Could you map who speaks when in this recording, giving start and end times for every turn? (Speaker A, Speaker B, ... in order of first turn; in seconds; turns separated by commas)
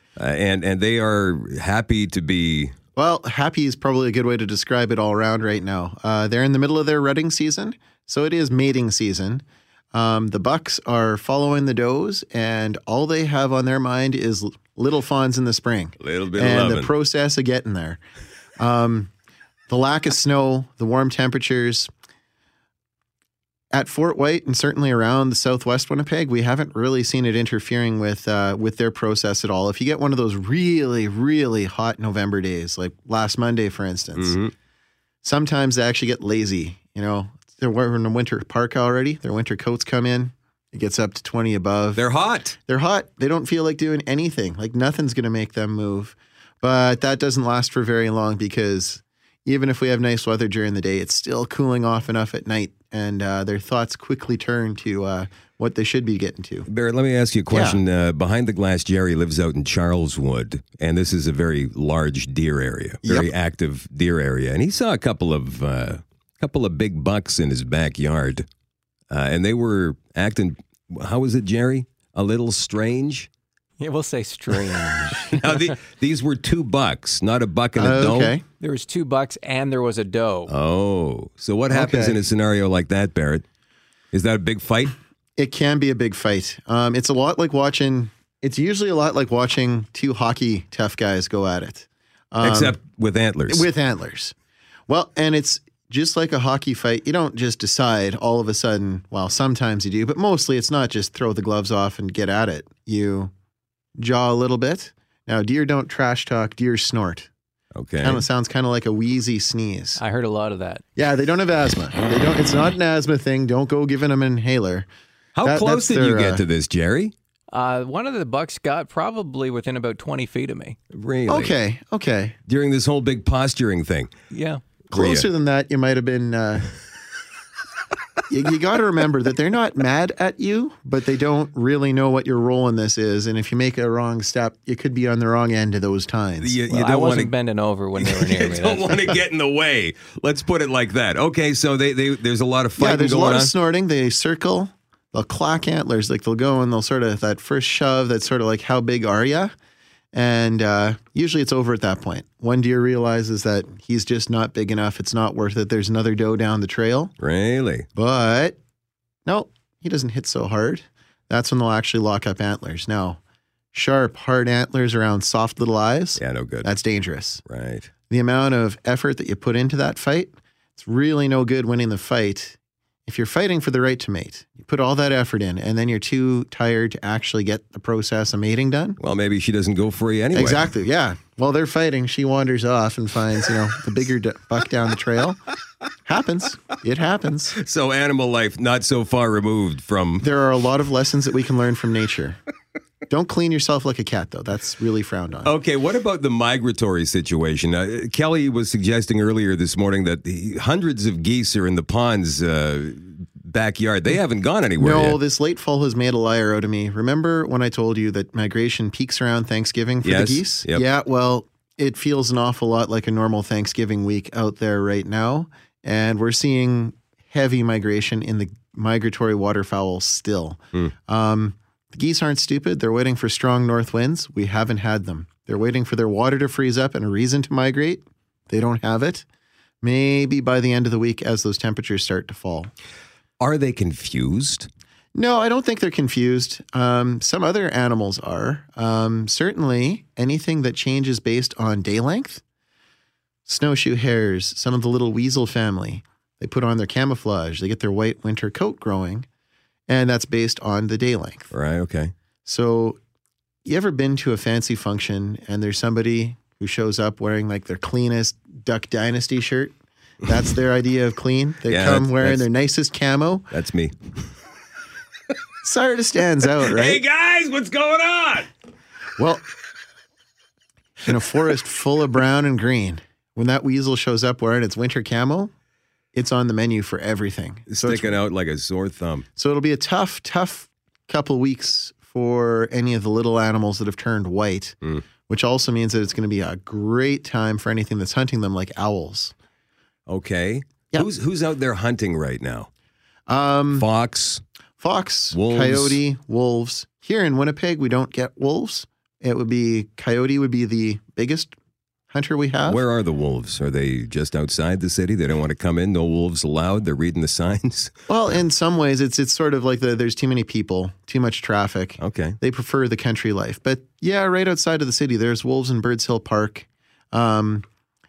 Speaker A: 0.2-2.7, Speaker B: 3.0-18.0, Speaker A: 16.0-16.9, Speaker B: 18.6-19.1, Speaker B: 19.7-21.9, Speaker B: 23.7-34.4, Speaker A: 34.1-34.5, Speaker B: 35.2-42.0, Speaker A: 42.0-42.6, Speaker B: 42.7-56.7, Speaker A: 56.6-68.4, Speaker B: 57.5-57.8, Speaker B: 63.0-63.3, Speaker A: 69.1-73.3, Speaker C: 73.8-75.6, Speaker A: 75.3-78.4, Speaker B: 77.8-78.4, Speaker C: 78.6-80.5, Speaker A: 80.5-83.4, Speaker B: 81.7-82.2, Speaker A: 84.1-85.0, Speaker B: 85.4-92.8, Speaker A: 92.4-93.7, Speaker B: 93.5-94.3, Speaker B: 94.9-103.3, Speaker B: 104.0-107.3, Speaker A: 107.8-108.2, Speaker B: 108.0-110.0, Speaker C: 110.0-110.8, Speaker B: 111.0-114.9, Speaker A: 115.3-117.1, Speaker B: 115.4-116.4, Speaker C: 117.5-120.8, Speaker A: 120.9-121.5, Speaker B: 121.3-122.3, Speaker A: 122.5-124.1, Speaker C: 124.3-124.6, Speaker B: 124.9-126.7, Speaker A: 124.9-125.3, Speaker B: 128.3-136.6, Speaker A: 136.4-137.3, Speaker C: 136.7-139.1, Speaker A: 138.0-143.5, Speaker B: 142.8-149.5, Speaker B: 150.1-157.1, Speaker A: 157.2-157.8, Speaker B: 157.9-158.6, Speaker B: 159.2-163.2, Speaker B: 163.7-167.4, Speaker A: 166.2-166.7, Speaker A: 167.4-167.9, Speaker B: 168.1-179.0, Speaker A: 179.0-180.7, Speaker B: 180.3-185.4, Speaker B: 186.0-187.6, Speaker A: 187.6-190.2, Speaker B: 190.2-192.4, Speaker B: 193.1-195.5, Speaker A: 195.4-205.2, Speaker B: 204.8-229.2, Speaker A: 210.0-210.8, Speaker B: 229.8-232.7, Speaker A: 233.4-234.7, Speaker B: 235.1-242.4, Speaker B: 243.4-249.2, Speaker B: 249.9-251.5, Speaker A: 251.5-252.1, Speaker B: 252.4-253.0, Speaker B: 253.6-259.7, Speaker B: 260.2-263.5, Speaker A: 261.7-262.4, Speaker A: 263.5-263.9, Speaker B: 265.6-267.0, Speaker A: 266.6-268.5, Speaker B: 269.2-269.4, Speaker B: 271.0-275.5, Speaker B: 276.1-278.2, Speaker A: 277.7-279.2, Speaker B: 279.4-284.8, Speaker B: 285.3-289.3, Speaker A: 290.1-292.7, Speaker B: 293.3-293.9, Speaker A: 293.8-294.4, Speaker B: 294.8-301.5, Speaker A: 295.3-296.0, Speaker B: 302.1-302.8, Speaker A: 302.7-307.9, Speaker B: 308.1-317.6, Speaker A: 312.0-312.4